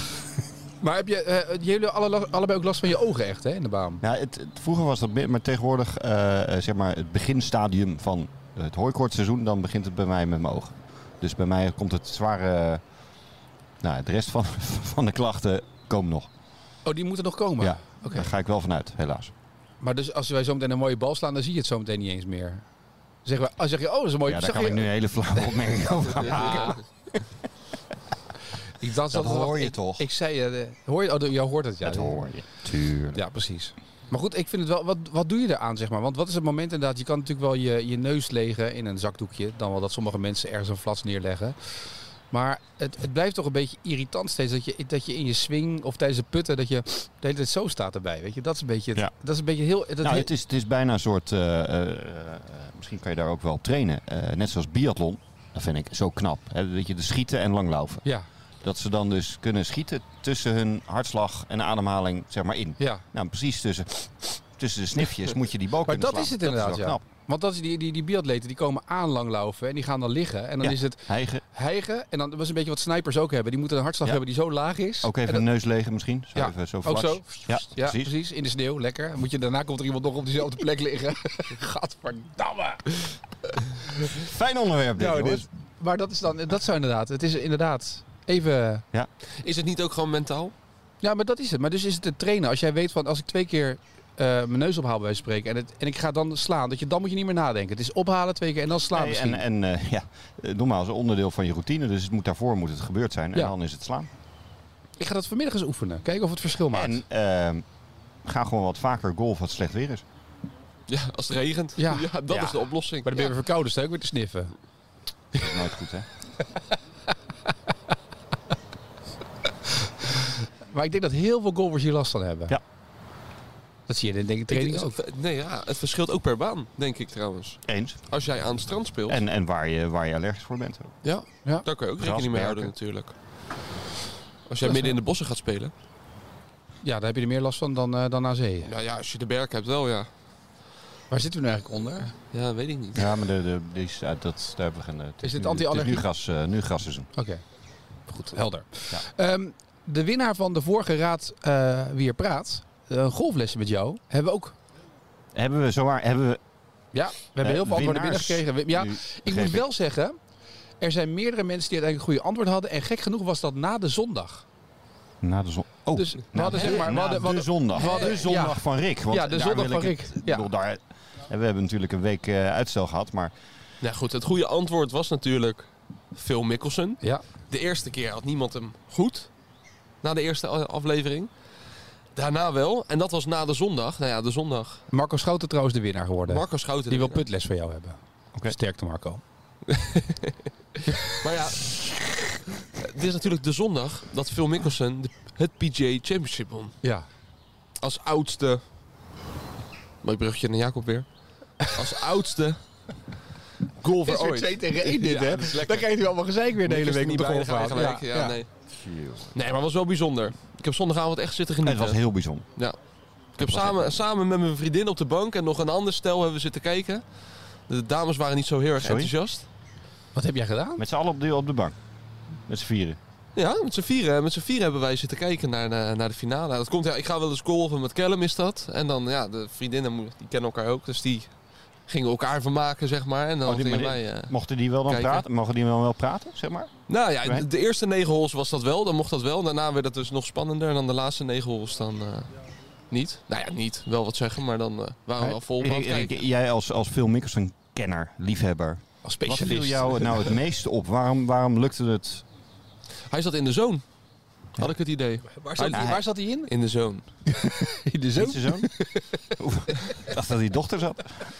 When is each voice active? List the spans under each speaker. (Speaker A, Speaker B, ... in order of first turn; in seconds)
Speaker A: 0.8-4.0, 16.9-18.3, 19.8-22.6, 23.2-24.9, 26.2-26.8, 28.8-32.2, 33.1-50.3, 65.9-75.5, 76.3-83.0, 85.0-88.8, 91.0-99.4, 105.0-107.0, 111.8-112.1, 113.0-114.5, 119.8-122.6, 123.9-125.0, 134.6-134.9, 136.8-138.7, 141.1-142.1, 145.2-146.1, 147.2-147.4, 148.1-154.6, 156.9-160.2, 160.8-164.5, 165.9-170.5, 184.9-189.2, 204.0-208.4, 220.1-220.8, 249.0-250.3, 255.4-256.5, 257.3-259.2
Speaker B: 4.0-12.8, 13.8-16.3, 17.6-19.3, 24.3-27.2, 29.1-30.1, 31.9-33.2, 50.0-58.0, 58.6-67.0, 70.6-71.4, 75.0-78.1, 84.1-85.5, 98.9-104.1, 106.7-107.7, 108.2-110.0, 112.3-112.6, 115.3-116.1, 127.7-128.0, 129.1-130.9, 132.0-132.7, 142.9-147.1, 155.3-156.4, 157.4-159.7, 165.2-173.3, 208.7-209.3, 211.6-212.5, 213.4-213.8, 218.8-219.1, 220.8-221.8, 222.5-223.0, 233.4-237.5, 245.5-252.2, 255.7-256.0, 258.2-258.7, 259.4-261.2
Speaker C: 89.4-90.5, 110.9-113.3, 124.5-129.2, 131.0-133.1, 134.5-135.7, 138.7-140.1, 142.3-143.1, 167.8-168.1, 173.8-179.3, 180.0-181.3, 182.2-184.8, 186.3-187.2, 189.7-190.3, 191.0-196.8, 197.8-198.6, 200.0-202.6, 203.8-205.9, 206.7-208.5, 209.3-212.0, 213.4-219.5, 223.3-231.3, 231.9-235.2, 236.9-242.3, 242.9-246.2, 253.1-253.8, 254.5-257.1